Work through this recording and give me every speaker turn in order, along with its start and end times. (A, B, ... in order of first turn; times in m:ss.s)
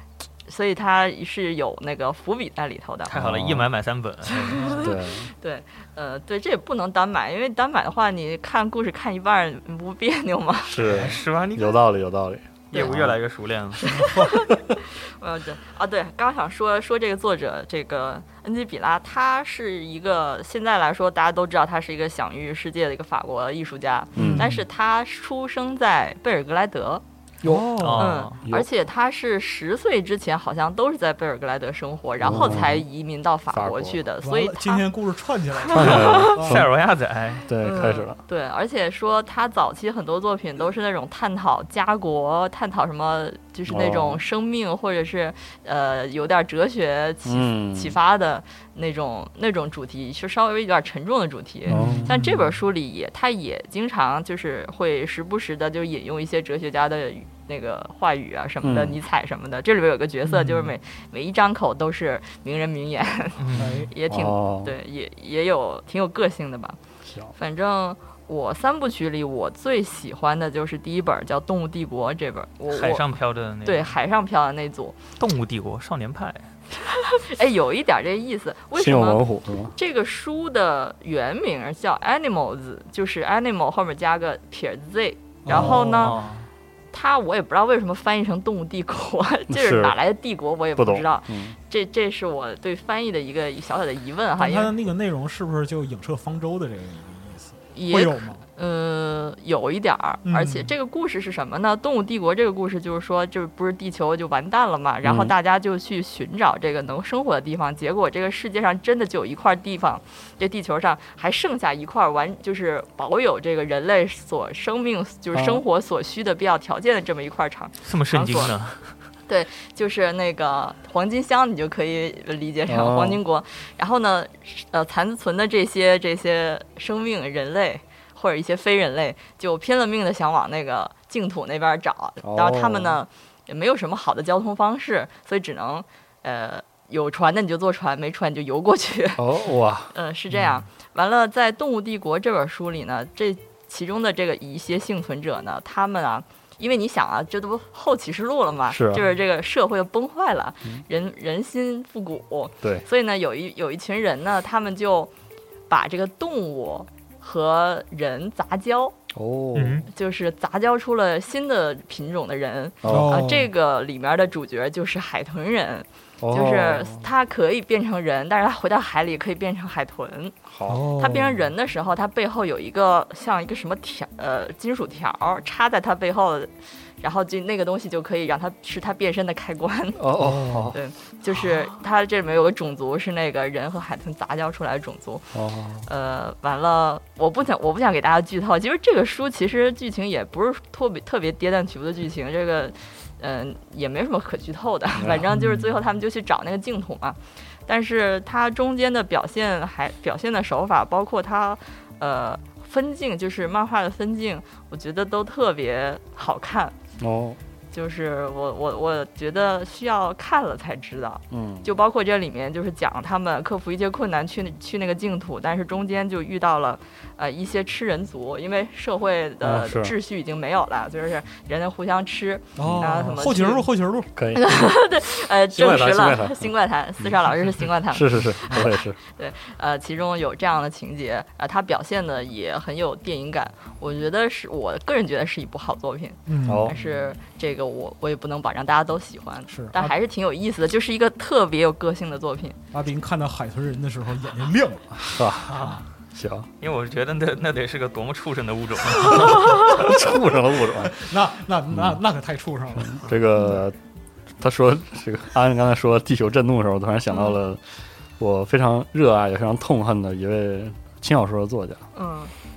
0:00.5-0:03.1 A
0:03.1-0:04.8 B
0:03.1-0:03.7 C
0:04.3-0:10.8 A
0:04.8-0:05.3 C
0:10.6-0:13.2 C
0:10.8-0:11.8 B
0:12.7-0:13.8 B
0:13.8-0:27.0 A
0:13.9-0:14.3 D
0:24.1-0:24.5 C
0:24.2-0:24.6 D
0:27.4-0:28.7 C
0:27.4-0:28.2 D
0:27.8-0:28.4 B
0:28.0-0:34.9 A
0:32.2-0:32.8 C
0:33.5-0:34.0 C
0:34.2-0:36.6 D
0:35.6-0:36.4 A
0:35.7-0:36.7 C
0:35.8-0:37.5 B
0:37.5-0:38.2 C
0:37.6-1:06.8 A
0:43.7-0:44.2 C
0:47.3-0:48.0 C
0:51.7-0:52.5 D
0:51.7-0:52.1 C
0:58.6-0:59.0 C
1:00.3-1:00.7 D
1:03.4-1:03.9 B
1:03.6-1:03.9 D
1:03.6-1:04.8 C
1:07.4-1:15.0 A
1:12.7-1:13.9 B
1:15.2-1:16.5 B
1:16.9-1:19.2 A
1:18.8-1:19.7 C
1:19.8-1:26.2 A
1:25.4-1:26.2 D
1:25.5-1:26.5 B
1:26.9-1:34.8 A
1:29.5-1:30.0 C
1:30.8-1:31.6 C
1:34.4-1:38.4 D
1:37.7-1:58.5 A
1:40.2-1:40.7 D
1:45.0-1:45.3 C
1:55.3-1:55.6 C
1:57.8-1:58.8 B
1:59.3-2:19.2 A
2:02.7-2:03.2 C
2:12.2-2:13.0 C
2:19.2-2:19.9 C
2:19.9-2:35.1 A
2:28.7-2:29.0 C
2:35.7-2:39.0 A
2:39.1-2:39.9 C
2:39.6-2:39.9 B
2:39.9-2:50.4 A
2:42.8-2:43.2 C
2:42.9-2:43.5 D
2:46.2-2:47.1 C
2:50.5-2:50.9 C
2:50.7-2:51.4 D
2:51.0-3:05.3 A
3:00.0-3:00.8 C
3:00.2-3:00.7 D
3:05.3-3:05.8 C
3:05.8-3:26.8 A
3:15.0-3:15.2 C
3:15.3-3:15.7 D
3:27.0-3:27.4 C
3:27.7-3:43.7 A
3:31.3-3:31.7 C
3:39.4-3:39.9 C
3:42.6-3:43.2 C
3:42.6-3:44.1 D
3:44.1-3:44.8 C
3:44.3-4:02.6 A
3:45.5-3:49.0 C
3:56.3-3:56.9 D
3:56.4-3:56.8 C
3:59.5-3:59.9 D
4:02.7-4:05.8 D
4:05.0-4:06.5 C
4:05.5-4:05.8 B
4:06.6-4:09.9 B
4:09.2-4:11.0 C
4:10.8-4:13.0 D
4:11.7-4:12.0 C
4:12.8-4:13.8 C
4:14.4-4:17.6 C
4:17.1-4:17.4 A
4:18.2-4:21.8 C
4:21.9-4:22.3 A